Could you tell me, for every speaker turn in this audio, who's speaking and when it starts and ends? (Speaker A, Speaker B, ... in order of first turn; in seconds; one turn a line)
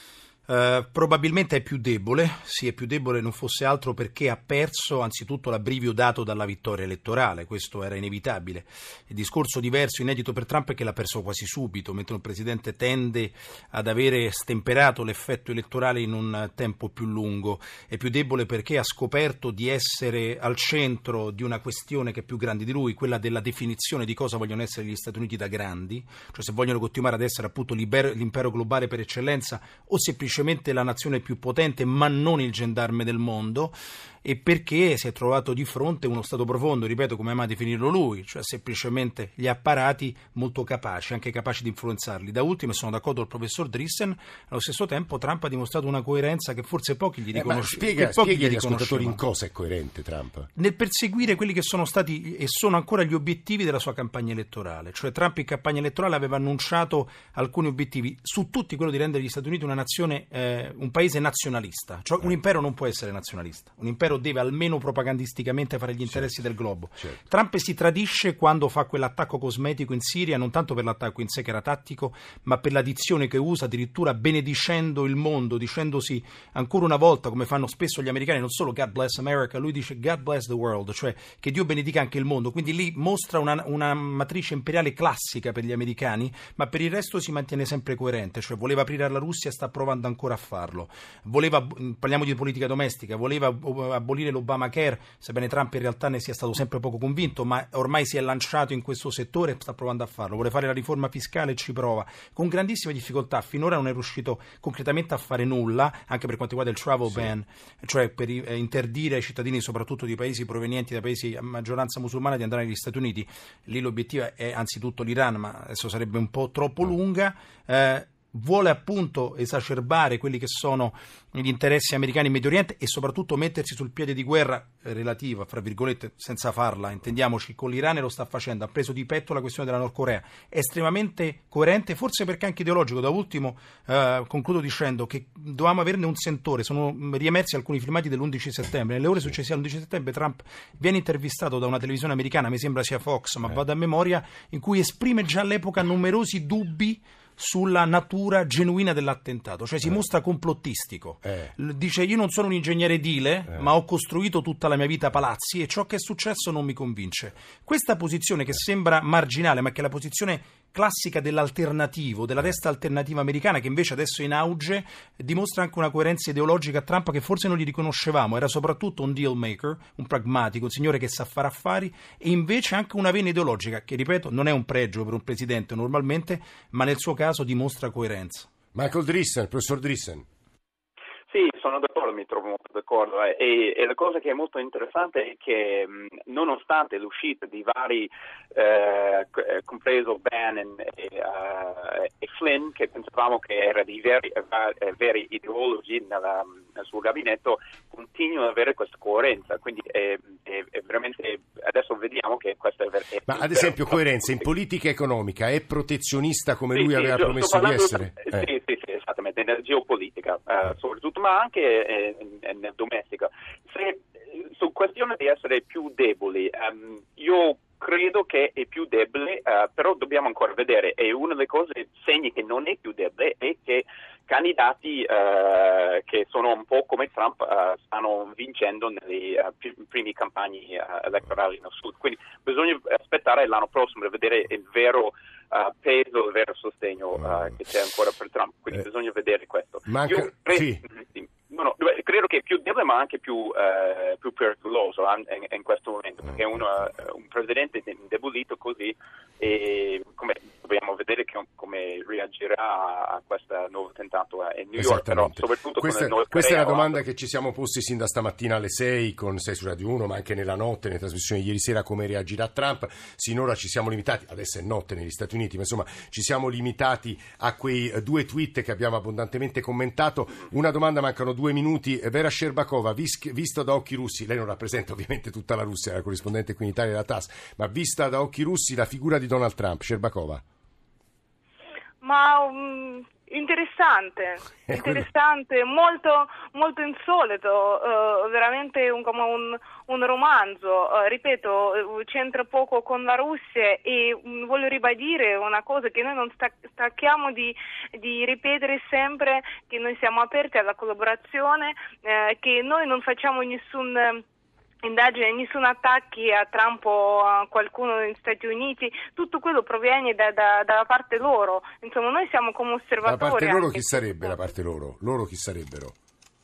Speaker A: 0.5-49.2
Speaker B: 47.3-50.5
Speaker A: 50.5-178.5
Speaker B: 151.2-151.5
Speaker B: 178.7-180.2
Speaker C: 181.3-204.3
Speaker B: 203.3-208.5
Speaker C: 206.7-257.0
Speaker B: 239.9-240.8
Speaker B: 254.8-280.4
Speaker D: 282.0-304.2
Speaker B: 284.7-285.0
Speaker D: 304.8-314.4
Speaker B: 313.0-315.9